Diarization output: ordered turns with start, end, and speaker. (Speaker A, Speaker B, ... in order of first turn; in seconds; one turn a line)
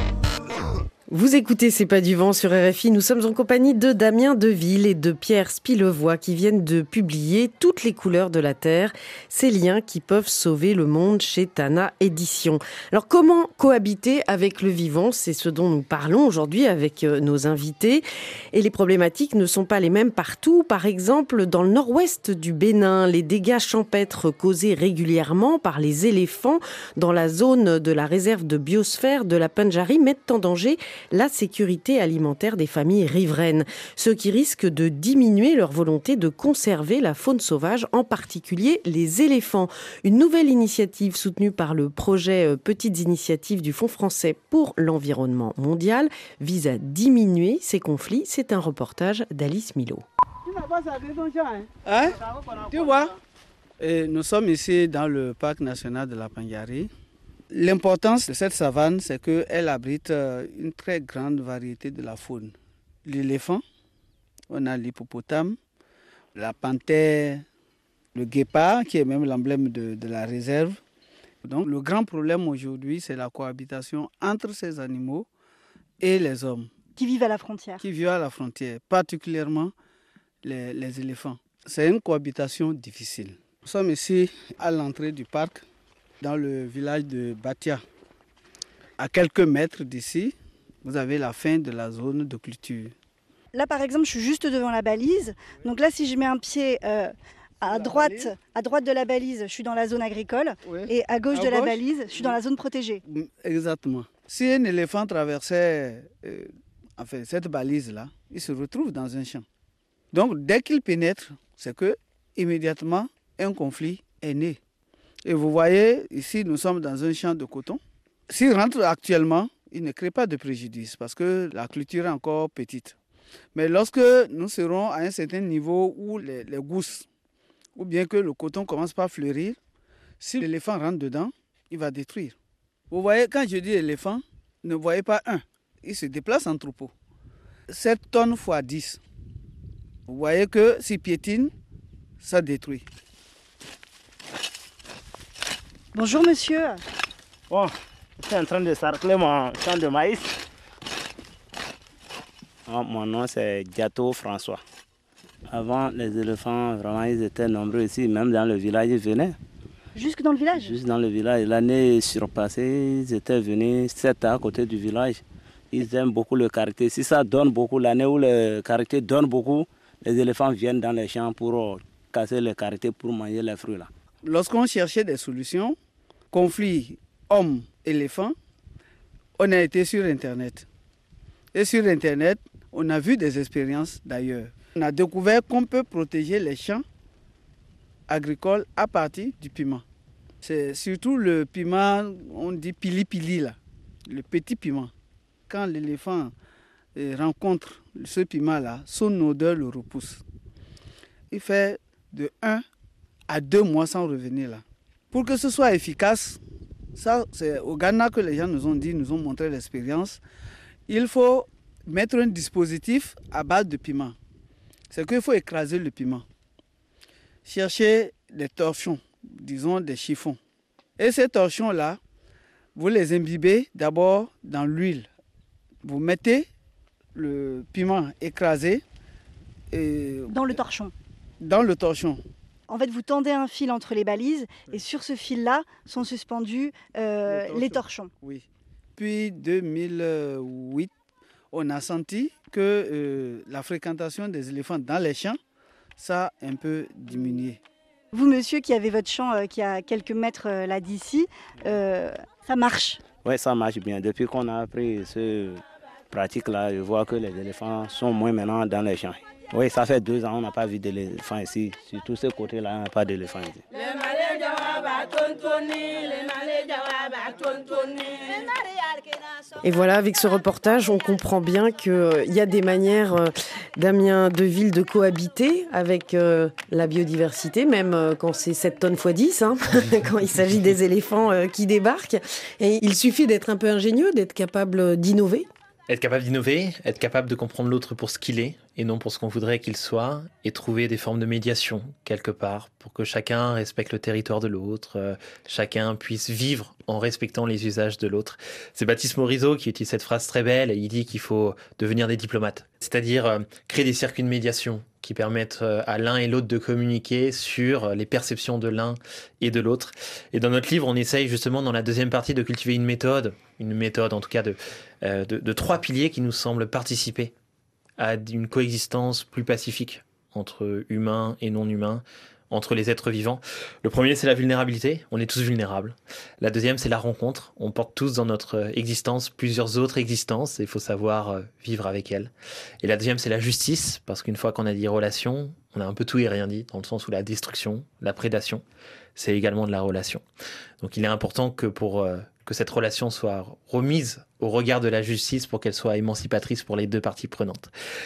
Speaker A: 1.1-50.0
Speaker B: 50.5-53.2
Speaker B: 53.8-56.9
Speaker B: 57.5-63.6
Speaker B: 64.5-65.6
Speaker B: 66.3-67.4
Speaker B: 68.1-70.8
Speaker B: 71.4-75.3
Speaker B: 76.0-76.7
Speaker C: 77.0-77.8
Speaker B: 77.8-79.7
Speaker B: 80.4-85.6
Speaker B: 86.2-87.8
Speaker B: 89.0-92.9
Speaker C: 93.5-103.0
Speaker B: 97.7-98.3
Speaker B: 100.7-102.4
Speaker B: 103.1-109.5
Speaker B: 110.1-114.6
Speaker B: 115.2-123.0
Speaker B: 123.5-127.1
Speaker B: 127.8-129.6
Speaker B: 130.2-132.4
Speaker B: 132.9-136.9
Speaker B: 137.7-139.0
Speaker B: 140.1-141.5
Speaker B: 142.2-142.9
Speaker C: 145.9-146.8
Speaker D: 147.5-150.3
Speaker D: 152.7-154.6
Speaker D: 155.5-159.4
Speaker C: 159.9-160.7
Speaker D: 160.6-173.9
Speaker B: 174.2-175.8
Speaker B: 176.3-178.3
Speaker B: 179.4-180.7
Speaker B: 181.5-186.8
Speaker B: 188.1-189.8
Speaker B: 190.4-193.6
Speaker B: 194.1-194.9
Speaker B: 195.5-196.3
Speaker B: 196.9-200.2
Speaker B: 201.3-202.6
Speaker B: 203.3-206.4
Speaker B: 206.9-210.2
Speaker B: 210.9-214.2
Speaker B: 214.9-216.2
Speaker B: 217.4-220.4
Speaker B: 221.0-222.0
Speaker B: 222.8-225.1
Speaker B: 225.8-226.5
Speaker B: 227.1-228.8
Speaker B: 229.7-230.5
Speaker C: 230.3-230.9
Speaker B: 231.4-232.2
Speaker C: 232.7-238.1
Speaker B: 237.3-238.5
Speaker B: 239.0-240.9
Speaker B: 241.5-245.4
Speaker B: 246.0-247.6
Speaker C: 248.1-253.0
Speaker D: 253.2-263.6
Speaker A: 269.6-285.5
Speaker E: 285.9-317.3
Speaker E: 318.0-332.3
Speaker E: 332.8-338.6
Speaker E: 339.2-340.2
Speaker E: 340.8-347.7